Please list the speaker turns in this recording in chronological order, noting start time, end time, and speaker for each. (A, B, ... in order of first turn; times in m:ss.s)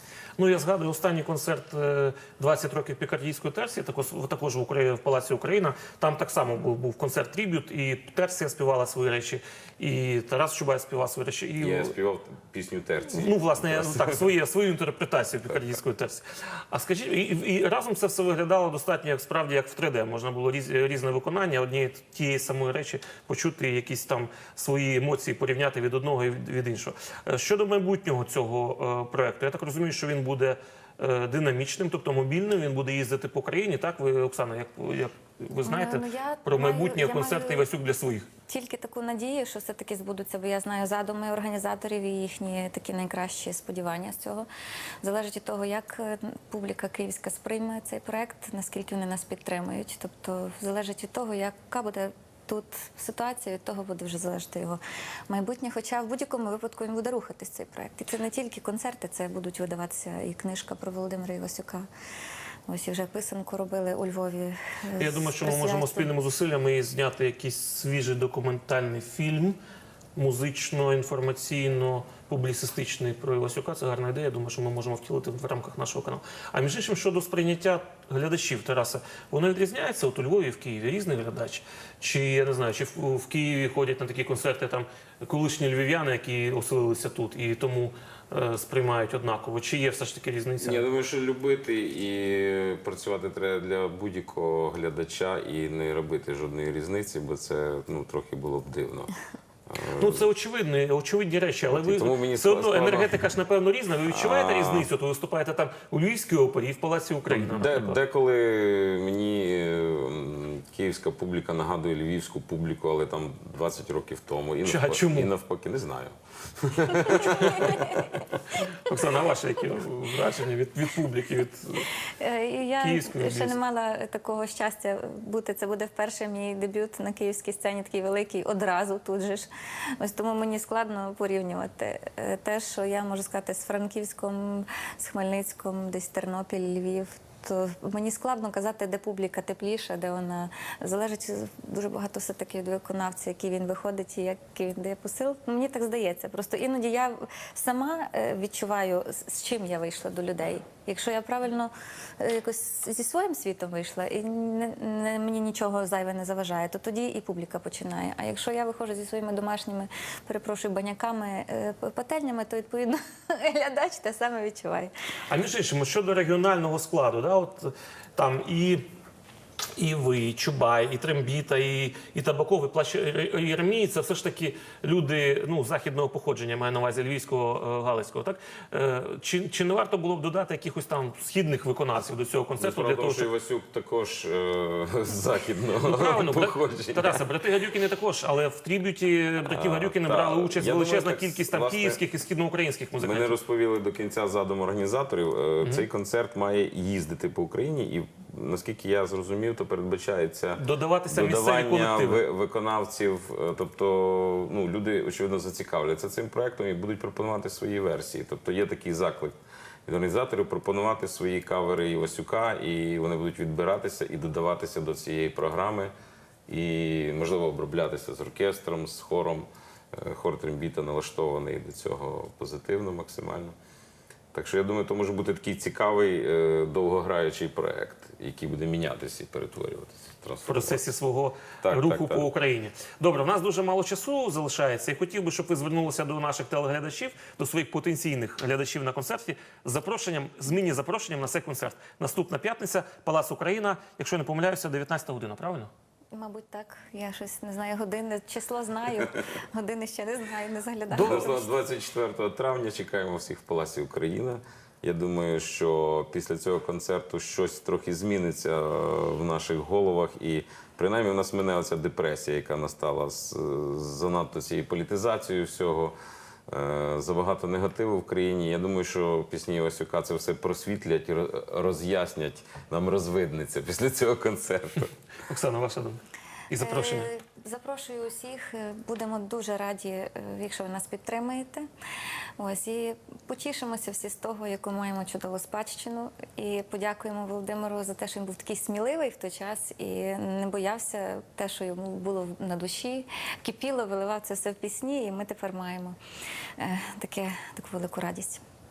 0:00.4-0:11.9 A
0:11.6-0:14.3 B
0:13.1-0:38.3 A
0:35.6-0:37.7 C
0:38.5-0:44.5 C
0:45.0-1:01.9 C
1:02.7-1:06.1 C
1:05.0-1:09.6 A
1:10.2-1:30.8 A
1:30.6-1:39.1 B
1:39.7-1:40.3 B
1:40.0-1:48.0 A
1:41.7-1:43.2 B
1:44.1-1:44.9 B
1:47.3-1:57.8 B
1:54.6-1:55.3 A
1:57.1-1:57.8 A
1:57.4-1:58.1 C
1:58.7-2:01.9 A
2:02.2-2:44.9 C
2:02.8-2:03.6 A
2:45.3-2:48.9 A
2:49.8-3:03.3 A
3:02.6-3:07.2 B
3:05.8-3:13.4 A
3:09.4-3:12.0 B
3:13.0-3:35.9 B
3:20.6-3:22.2 A
3:36.5-3:43.6 B
3:44.3-3:50.9 B
3:50.5-4:05.7 A
3:51.6-3:52.3 B
4:06.1-4:11.5 C
4:10.9-4:11.4 A
4:11.0-4:26.0 B
4:26.5-4:34.9 B
4:35.3-4:37.1 A
4:36.6-4:41.7 C
4:42.4-4:56.0 C
4:56.6-4:58.4 C